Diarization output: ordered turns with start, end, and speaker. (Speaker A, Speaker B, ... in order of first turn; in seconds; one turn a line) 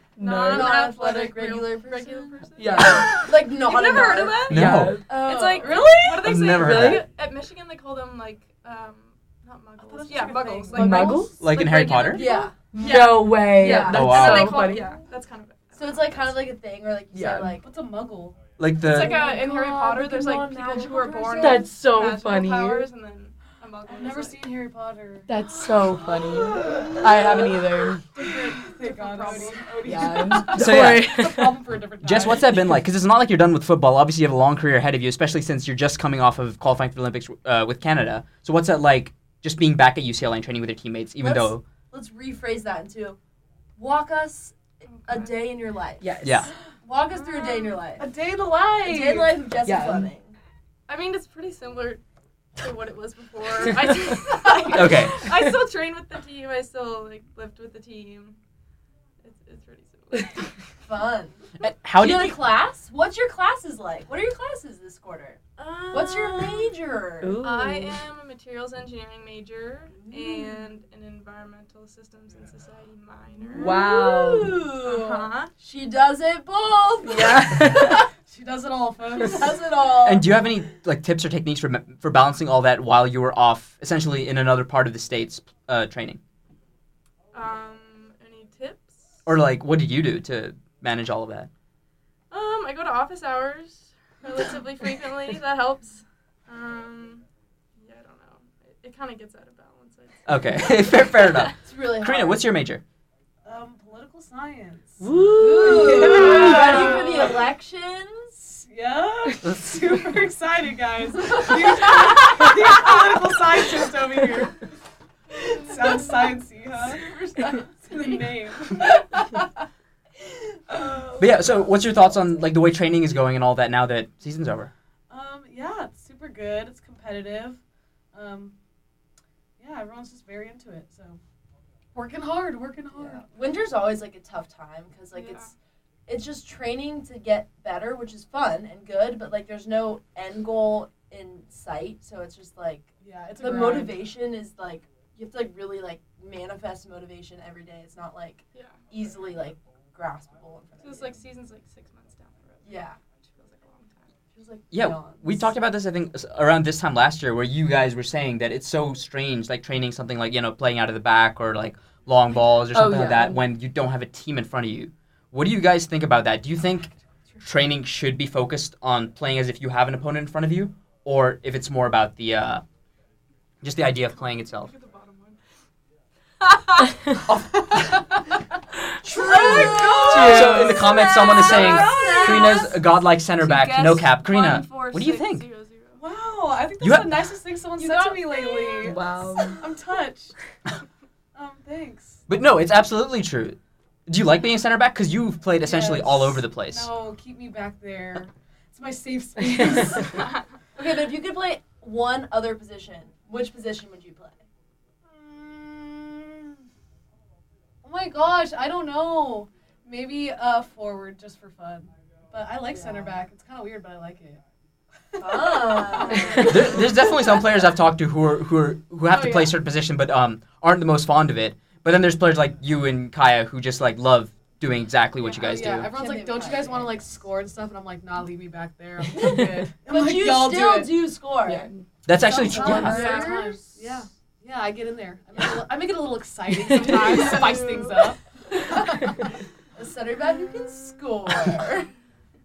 Speaker A: 0.2-0.7
Speaker B: 0.2-16.4
Speaker C: 0.4-4.5
Speaker A: 2.6-3.3
Speaker A: 4.5-5.1
Speaker D: 4.5-5.0
Speaker C: 5.1-6.3
Speaker D: 6.2-7.0
Speaker A: 6.3-7.1
Speaker E: 9.8-11.2
Speaker A: 10.7-11.3
Speaker C: 10.8-11.3
Speaker D: 11.4-12.3
Speaker C: 12.1-14.3
Speaker A: 12.7-15.0
Speaker D: 13.8-14.6
Speaker C: 15.8-17.6
Speaker A: 17.1-17.5
Speaker E: 17.6-18.4
Speaker D: 18.6-19.2
Speaker B: 18.8-24.6
Speaker C: 18.9-21.7
Speaker A: 21.4-22.9
Speaker E: 23.9-25.3
Speaker A: 25.3-28.0
Speaker B: 28.2-30.2
Speaker E: 28.2-32.6
Speaker C: 29.2-29.6
Speaker A: 29.8-31.7
Speaker D: 30.5-31.3
Speaker D: 32.0-41.6
Speaker C: 41.2-43.2
Speaker C: 43.8-46.0
Speaker B: 44.9-45.5
Speaker A: 46.0-46.5
Speaker D: 46.2-46.5
Speaker C: 46.8-48.1
Speaker B: 47.3-47.8
Speaker E: 48.0-49.5
Speaker C: 48.8-50.4
Speaker A: 49.6-50.1
Speaker B: 50.9-52.0
Speaker B: 52.6-58.4
Speaker D: 54.7-55.2
Speaker B: 59.2-60.5
Speaker C: 60.8-61.4
Speaker D: 61.6-62.5
Speaker C: 62.0-67.4
Speaker B: 65.6-66.7
Speaker A: 67.2-68.0
Speaker B: 67.4-73.8
Speaker C: 70.0-70.6
Speaker A: 73.5-74.6
Speaker C: 73.5-78.1
Speaker B: 74.8-75.5
Speaker A: 77.0-78.0
Speaker E: 78.2-79.7
Speaker C: 79.2-80.3
Speaker D: 80.0-86.2
Speaker B: 87.3-89.0
Speaker D: 89.2-91.5
Speaker B: 92.3-97.2
Speaker B: 97.8-101.5
Speaker D: 100.2-102.8
Speaker C: 101.6-102.5
Speaker E: 103.4-105.1
Speaker A: 105.0-107.0
Speaker C: 105.4-108.6
Speaker E: 105.6-107.5
Speaker E: 108.7-114.6
Speaker E: 115.4-119.4
Speaker B: 115.7-116.0
Speaker E: 120.7-121.2
Speaker D: 121.2-124.7
Speaker E: 125.1-127.6
Speaker E: 128.1-128.5
Speaker E: 129.6-131.2
Speaker E: 131.9-133.2
Speaker C: 133.0-135.5
Speaker B: 135.1-135.4
Speaker C: 136.1-151.2
Speaker E: 143.0-144.1
Speaker B: 150.8-154.1
Speaker C: 152.6-153.0
Speaker C: 154.3-155.5
Speaker D: 154.7-172.6
Speaker A: 162.7-163.4
Speaker D: 173.6-174.7
Speaker B: 174.1-175.4
Speaker D: 177.2-178.0
Speaker E: 179.1-180.7
Speaker C: 179.1-182.7
Speaker D: 180.1-185.5
Speaker A: 180.1-180.9
Speaker B: 181.0-182.8
Speaker E: 181.6-182.1
Speaker B: 183.4-186.0
Speaker E: 186.0-190.3
Speaker D: 186.8-187.3
Speaker C: 187.8-189.0
Speaker A: 188.8-189.6
Speaker E: 191.3-192.2
Speaker D: 192.3-196.9
Speaker E: 195.6-200.3
Speaker B: 200.0-200.4
Speaker C: 200.8-204.4
Speaker E: 205.0-206.6
Speaker E: 207.8-214.4
Speaker C: 212.7-213.1
Speaker E: 215.1-216.8
Speaker C: 215.2-216.9
Speaker D: 216.4-225.9
Speaker E: 219.1-219.5
Speaker E: 225.2-231.1
Speaker C: 225.6-227.2
Speaker C: 229.3-231.7
Speaker A: 231.5-231.8
Speaker D: 232.1-233.2
Speaker E: 232.2-239.3
Speaker C: 232.3-233.8
Speaker B: 232.7-233.4
Speaker C: 236.8-238.1
Speaker C: 239.8-241.9
Speaker E: 240.6-240.9